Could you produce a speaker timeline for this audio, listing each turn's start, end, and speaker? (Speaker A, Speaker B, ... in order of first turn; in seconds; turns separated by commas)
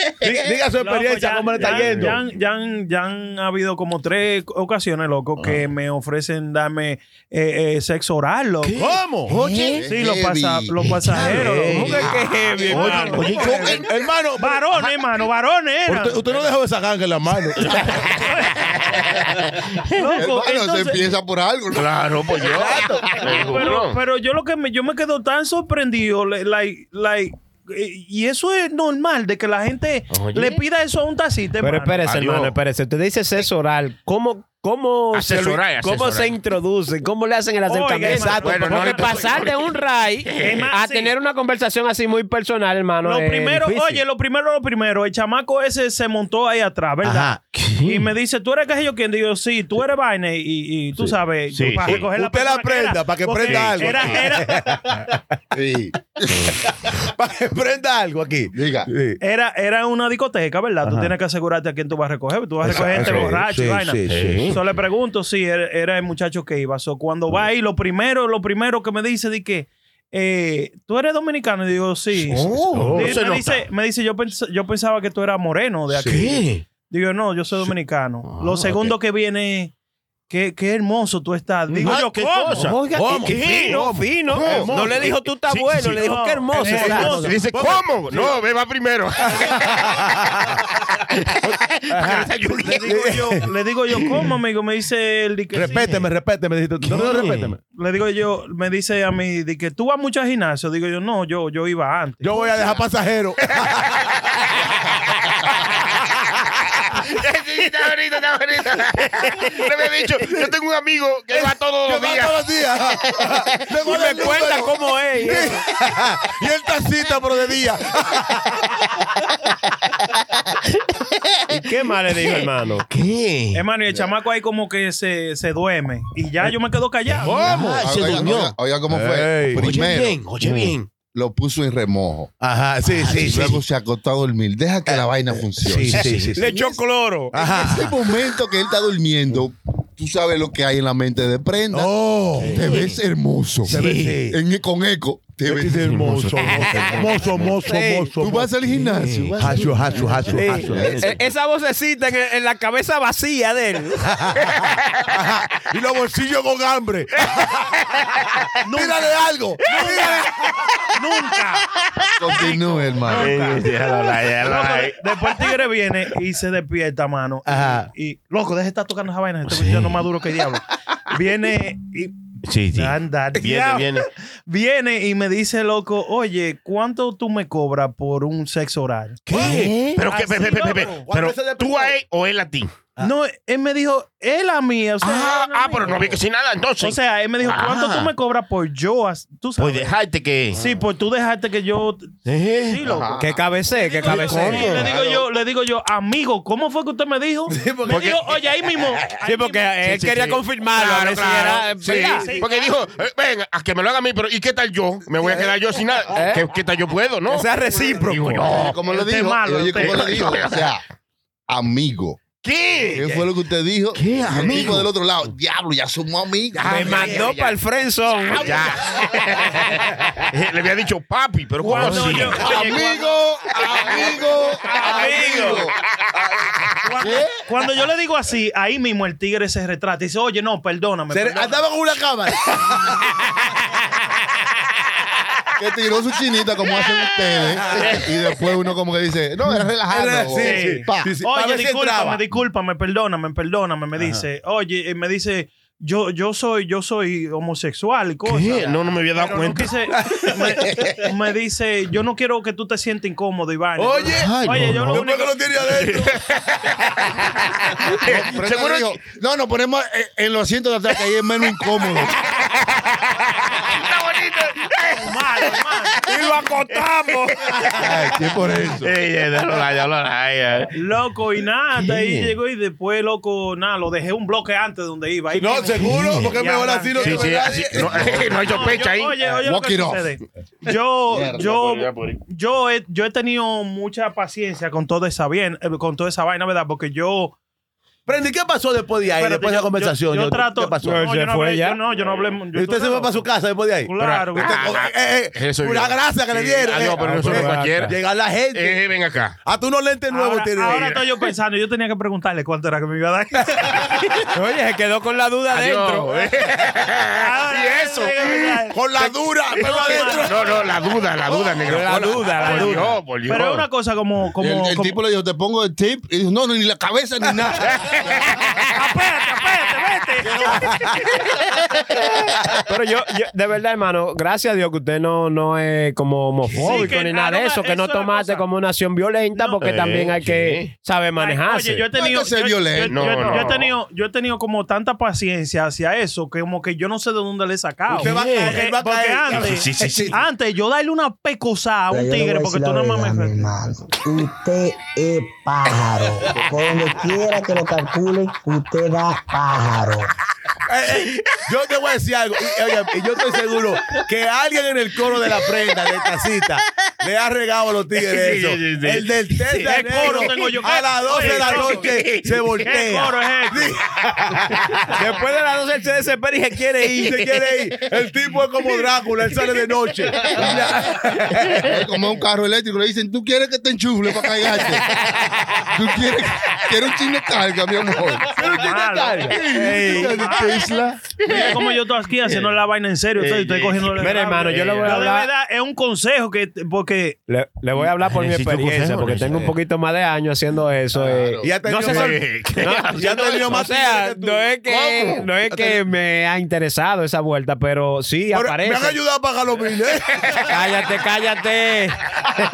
Speaker A: 0.2-2.2, Speaker B: 0.8-8.8, Speaker C: 1.6-2.1, Speaker A: 5.4-5.6, Speaker C: 8.6-9.9, Speaker A: 8.8-9.3, Speaker B: 9.6-13.8, Speaker D: 9.8-10.8, Speaker C: 10.8-11.4, Speaker A: 11.1-12.1, Speaker E: 11.7-13.3, Speaker A: 12.7-14.7, Speaker C: 12.7-13.9, Speaker B: 14.4-16.2, Speaker A: 15.9-18.0, Speaker C: 17.6-20.1, Speaker B: 18.2-18.6, Speaker B: 19.9-21.0, Speaker D: 20.2-22.0, Speaker C: 21.7-24.0, Speaker A: 22.4-23.5, Speaker B: 23.3-32.1, Speaker C: 30.1-30.6, Speaker E: 31.6-44.0, Speaker C: 32.0-32.5, Speaker C: 35.1-36.4, Speaker B: 37.6-39.5, Speaker A: 38.1-38.8, Speaker C: 38.4-39.7, Speaker C: 40.2-40.7, Speaker B: 40.4-41.1, Speaker B: 43.0-54.8, Speaker A: 47.0-47.4, Speaker C: 47.6-48.1, Speaker C: 51.5-52.0, Speaker A: 51.9-55.2, Speaker C: 53.4-54.2, Speaker D: 55.5-56.5, Speaker A: 56.6-59.2, Speaker D: 58.5-58.9, Speaker B: 59.2-79.7, Speaker A: 60.8-61.1, Speaker A: 62.6-64.4, Speaker C: 62.6-63.3, Speaker C: 64.1-64.6, Speaker C: 72.2-73.6, Speaker A: 72.7-73.2, Speaker A: 75.9-76.2, Speaker C: 76.0-76.7, Speaker C: 78.3-78.9, Speaker B: 80.3-82.7, Speaker A: 81.7-82.0, Speaker C: 81.8-86.0, Speaker E: 82.5-87.1, Speaker A: 82.9-85.1, Speaker B: 85.9-87.4, Speaker A: 86.6-88.3, Speaker C: 86.8-90.0, Speaker A: 89.2-90.6, Speaker C: 91.1-92.9, Speaker A: 91.9-93.5, Speaker B: 92.6-96.1, Speaker C: 93.9-94.2, Speaker A: 95.5-97.6, Speaker C: 96.8-97.5, Speaker B: 97.7-102.8, Speaker A: 102.2-104.1, Speaker C: 103.6-105.5, Speaker C: 106.9-112.4, Speaker A: 110.2-110.5, Speaker A: 111.3-118.9, Speaker E: 113.8-115.6, Speaker E: 121.5-122.8, Speaker C: 122.8-123.6, Speaker B: 123.5-127.6, Speaker A: 127.2-128.3, Speaker E: 127.5-127.8, Speaker C: 127.6-128.5, Speaker D: 127.8-130.6, Speaker A: 128.9-129.7, Speaker C: 129.6-130.9, Speaker D: 131.1-132.3, Speaker A: 132.4-133.6, Speaker D: 133.0-136.8, Speaker A: 135.6-136.5, Speaker C: 135.9-136.3, Speaker E: 136.3-137.3, Speaker A: 137.3-138.0, Speaker D: 137.3-146.2, Speaker A: 141.7-142.7, Speaker C: 142.6-142.9, Speaker A: 143.7-144.4, Speaker C: 143.7-144.2, Speaker A: 145.4-148.8, Speaker C: 145.8-147.5, Speaker E: 147.6-148.1, Speaker D: 148.2-151.1, Speaker C: 148.8-150.2, Speaker A: 149.4-151.1, Speaker E: 150.3-154.3, Speaker A: 154.1-157.8, Speaker C: 154.5-155.1, Speaker B: 158.6-161.7, Speaker A: 158.7-160.5, Speaker D: 162.2-163.4, Speaker B: 162.3-172.1, Speaker C: 163.1-165.3, Speaker A: 167.5-167.9, Speaker C: 169.5-170.0, Speaker C: 172.5-174.1, Speaker B: 172.7-179.5, Speaker A: 179.3-179.8, Speaker C: 179.3-182.7, Speaker B: 180.0-181.0, Speaker A: 181.0-181.9, Speaker B: 183.0-186.2, Speaker C: 185.0-188.1, Speaker B: 186.8-189.9, Speaker C: 189.6-190.6, Speaker B: 190.6-193.2, Speaker C: 192.2-192.9, Speaker D: 192.8-193.4, Speaker E: 193.2-194.8, Speaker B: 193.7-199.8, Speaker C: 194.3-194.9, Speaker A: 194.4-194.9, Speaker A: 197.5-198.4, Speaker C: 197.9-198.2, Speaker E: 199.2-202.3, Speaker C: 199.8-207.5, Speaker B: 202.2-202.7, Speaker A: 205.2-205.5, Speaker E: 206.1-206.4, Speaker E: 207.3-208.4, Speaker C: 208.0-208.8, Speaker D: 208.4-210.8, Speaker B: 208.8-210.4, Speaker C: 209.7-210.7, Speaker D: 211.5-212.2, Speaker C: 212.4-213.1, Speaker D: 212.9-217.1, Speaker C: 213.9-214.9, Speaker C: 216.5-217.6, Speaker A: 216.6-217.3, Speaker E: 216.7-218.7, Speaker C: 218.3-222.9, Speaker B: 221.6-223.0, Speaker A: 221.7-222.7, Speaker D: 222.3-225.7, Speaker B: 224.6-225.6, Speaker E: 224.9-225.6, Speaker B: 226.8-231.6, Speaker D: 227.0-227.4, Speaker A: 231.1-233.2, Speaker D: 235.6-241.1, Speaker A: 237.6-238.1, Speaker A: 239.5-242.2, Speaker B: 240.3-255.4, Speaker A: 243.9-244.2, Speaker C: 248.2-249.8, Speaker A: 249.9-251.1, Speaker A: 253.8-256.2, Speaker C: 254.2-255.0, Speaker C: 255.6-259.0, Speaker D: 257.9-262.2, Speaker C: 261.9-268.1, Speaker B: 264.9-266.1, Speaker E: 266.0-267.4, Speaker A: 267.7-268.1, Speaker D: 267.8-268.9, Speaker C: 268.8-270.7, Speaker B: 270.7-277.6, Speaker C: 271.9-272.3, Speaker A: 275.3-278.4, Speaker C: 275.8-276.4, Speaker C: 277.0-279.2, Speaker D: 277.7-278.6, Speaker B: 278.4-287.3, Speaker D: 279.4-280.1, Speaker C: 281.1-282.2, Speaker A: 288.1-291.1, Speaker B: 289.1-293.3, Speaker E: 290.8-291.8, Speaker C: 292.0-292.4, Speaker A: 292.5-298.8, Speaker B: 293.9-294.8, Speaker C: 294.0-298.0, Speaker E: 297.0-297.9, Speaker C: 298.5-299.4, Speaker A: 299.4-301.0, Speaker B: 300.1-304.1, Speaker C: 300.6-301.0, Speaker E: 304.3-306.3, Speaker C: 305.5-313.6, Speaker B: 307.1-310.6, Speaker A: 308.7-310.6, Speaker A: 311.3-312.2, Speaker E: 311.7-313.0, Speaker B: 312.4-315.0, Speaker D: 314.4-318.1, Speaker C: 317.6-318.7, Speaker B: 318.7-320.7, Speaker A: 320.4-321.0, Speaker E: 322.7-331.9, Speaker B: 326.5-328.4, Speaker B: 329.3-329.6, Speaker C: 329.6-330.7, Speaker B: 331.1-343.5, Speaker D: 331.9-333.5, Speaker C: 332.8-333.7, Speaker A: 337.9-340.1, Speaker C: 337.9-338.6, Speaker C: 339.3-340.2, Speaker F: 341.9-350.1, Speaker A: 350.6-364.9, Speaker C: 351.1-351.4, Speaker C: 358.0-360.3, Speaker B: 359.6-361.9, Speaker C: 361.1-362.6, Speaker B: 362.6-363.8, Speaker E: 364.9-367.3, Speaker A: 366.9-371.8, Speaker D: 370.3-370.9, Speaker D: 371.6-374.9, Speaker C: 374.9-375.6, Speaker D: 375.6-378.3, Speaker A: 378.3-380.2, Speaker B: 378.5-380.7, Speaker D: 379.3-381.1, Speaker C: 381.2-381.7, Speaker B: 381.2-387.2, Speaker C: 382.3-382.5, Speaker C: 383.2-385.0, Speaker E: 384.0-385.3, Speaker E: 387.3-399.0, Speaker C: 387.8-389.5, Speaker D: 391.0-391.5, Speaker A: 391.4-392.2, Speaker C: 391.8-393.6, Speaker A: 392.9-394.5, Speaker C: 394.7-395.2, Speaker A: 395.5-395.8, Speaker A: 398.3-400.6, Speaker E: 400.5-402.0